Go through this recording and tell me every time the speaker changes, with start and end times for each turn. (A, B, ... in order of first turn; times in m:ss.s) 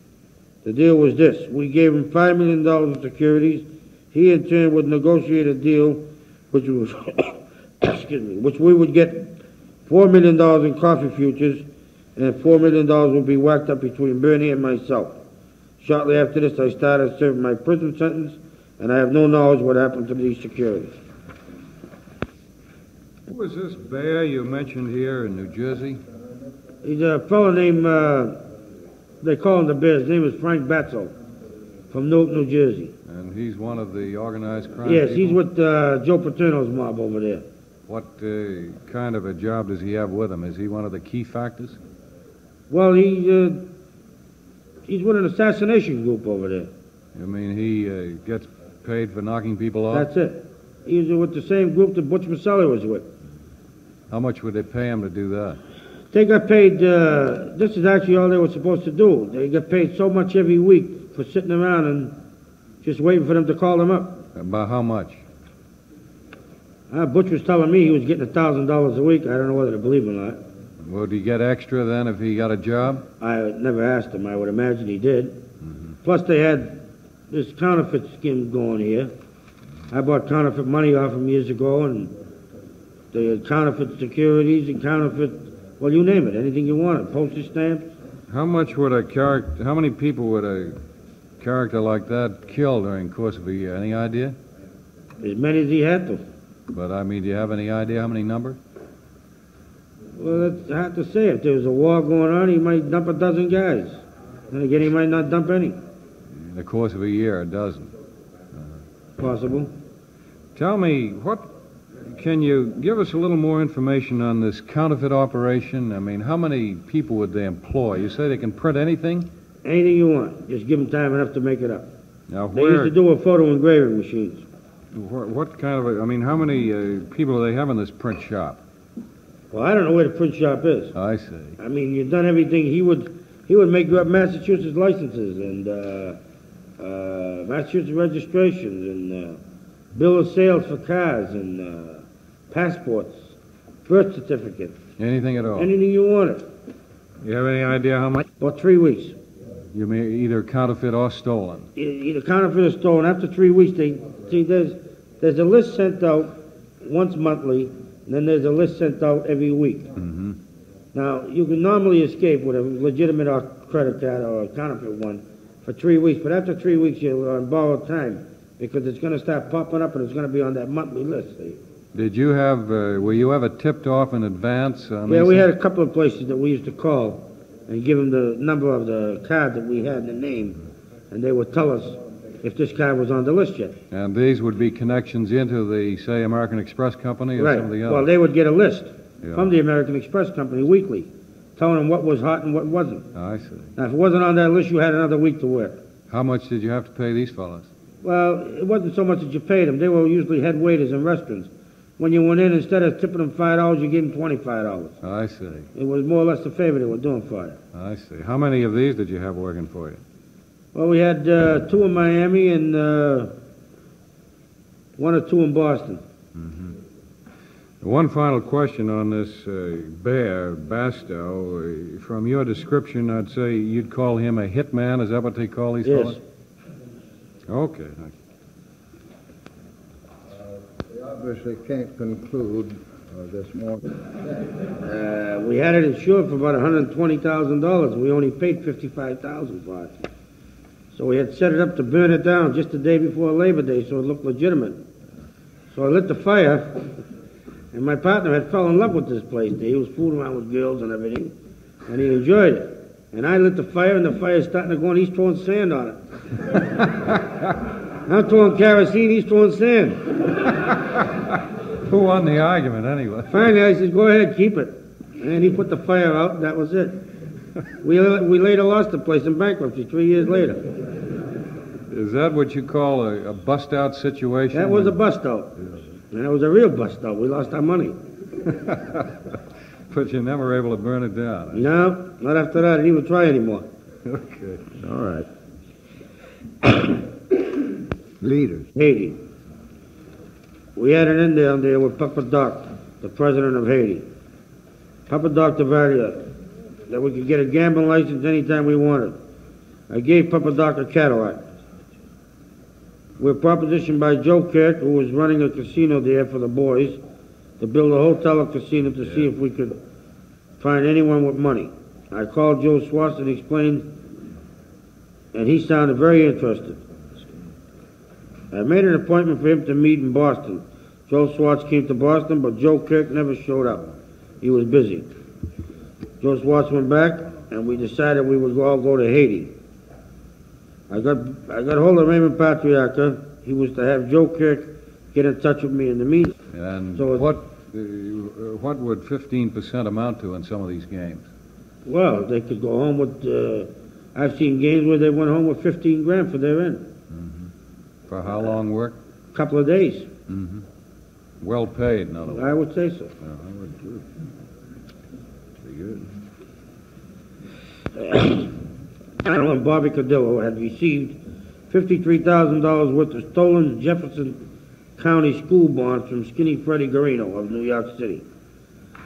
0:00.6-0:09.3 A
0:09.9-0:11.6 A
0:12.2-0:15.2 A
0:15.8-0:20.9 A
0:23.3-0:26.0 B
0:26.8-0:28.4 A
0:29.2-0:31.1 A
0:31.9-0:32.9 A
0:33.1-0:35.4 B
0:34.8-0:37.4 A
0:37.9-0:41.8 B
0:42.7-0:43.6 A
0:44.9-0:46.7 A
0:47.2-0:50.1 B
0:49.9-0:53.0 A
0:54.1-0:55.6 B
0:56.1-1:02.1 A
1:02.8-1:04.2 A
1:04.4-1:05.2 B
1:06.9-1:10.4 A
1:10.8-1:13.0 B
1:13.2-1:15.4 A
1:16.0-1:19.1 A
1:19.9-1:22.1 A
1:23.1-1:27.9 A
1:28.3-1:30.7 B
1:31.4-1:34.4 B
1:35.2-1:36.2 A
1:36.7-1:38.6 B
1:40.2-1:45.8 A
1:46.4-1:47.9 B
1:49.2-1:49.7 A
1:50.6-1:51.5 B
1:52.0-1:59.3 B
1:59.6-2:01.9 A
2:02.3-2:03.0 B
2:02.5-2:04.5 A
2:04.9-2:08.6 B
2:09.5-2:11.0 A
2:11.0-2:11.6 B
2:11.6-2:16.2 A
2:16.8-2:19.4 A
2:20.0-2:23.3 A
2:23.9-2:24.8 A
2:25.0-2:25.7 B
2:25.6-2:26.4 A
2:27.2-2:28.3 B
2:28.4-2:29.2 A
2:29.7-2:31.7 B
2:31.8-2:39.9 A
2:40.0-2:40.4 B
2:40.9-2:51.6 A
2:51.9-2:55.5 B
2:55.1-3:00.6 A
3:01.1-3:03.8 A
3:03.9-3:08.1 B
3:07.4-3:13.1 A
3:09.2-3:09.5 B
3:13.2-3:13.7 B
3:13.8-3:15.8 A
3:16.1-3:17.7 B
3:18.0-3:25.0 A
3:25.0-3:25.7 B
3:25.8-3:27.6 A
3:27.7-3:30.0 B
3:30.7-3:33.3 A
3:35.0-3:36.0 A
3:36.4-3:36.8 B
3:37.8-3:46.2 B
3:45.8-3:46.2 A
3:47.5-3:48.1 B
3:50.9-3:53.8 C
3:54.8-3:59.9 A
4:00.9-4:04.8 A
4:05.7-4:06.9 A
4:07.7-4:11.3 A
4:11.9-4:16.0 A
4:18.0-4:20.1 A
4:21.8-4:23.4 B
4:23.3-4:27.0 A
4:27.8-4:30.7 A
4:31.9-4:35.0 B
4:34.5-4:35.6 A
4:36.1-4:38.0 A
4:38.5-4:39.1 B
4:39.9-4:41.7 B
4:41.5-4:43.7 A
4:44.1-4:44.8 B
4:44.8-4:45.3 C
4:48.2-4:48.7 C
4:48.8-4:49.2 A
4:50.8-4:54.1 A
4:55.1-4:56.3 A
4:56.9-4:59.2 A
4:59.9-5:01.4 A
5:03.2-5:07.0 A
5:07.6-5:09.8 A
5:10.6-5:13.9 A
5:15.3-5:16.8 A
5:18.5-5:23.9 A
5:24.4-5:25.1 A
5:26.2-5:29.5 A
5:30.9-5:36.4 A
5:36.5-5:41.3 B
5:37.0-5:37.3 A
5:41.9-5:46.9 A
5:47.1-5:47.5 B
5:48.1-5:49.0 B
5:49.3-5:50.1 A
5:50.3-5:50.6 B
5:51.4-5:52.5 B
5:52.3-5:53.1 A
5:53.2-5:54.1 B
5:55.6-5:56.1 B
5:58.0-5:58.5 A
5:59.2-6:04.4 A
6:05.0-6:08.2 A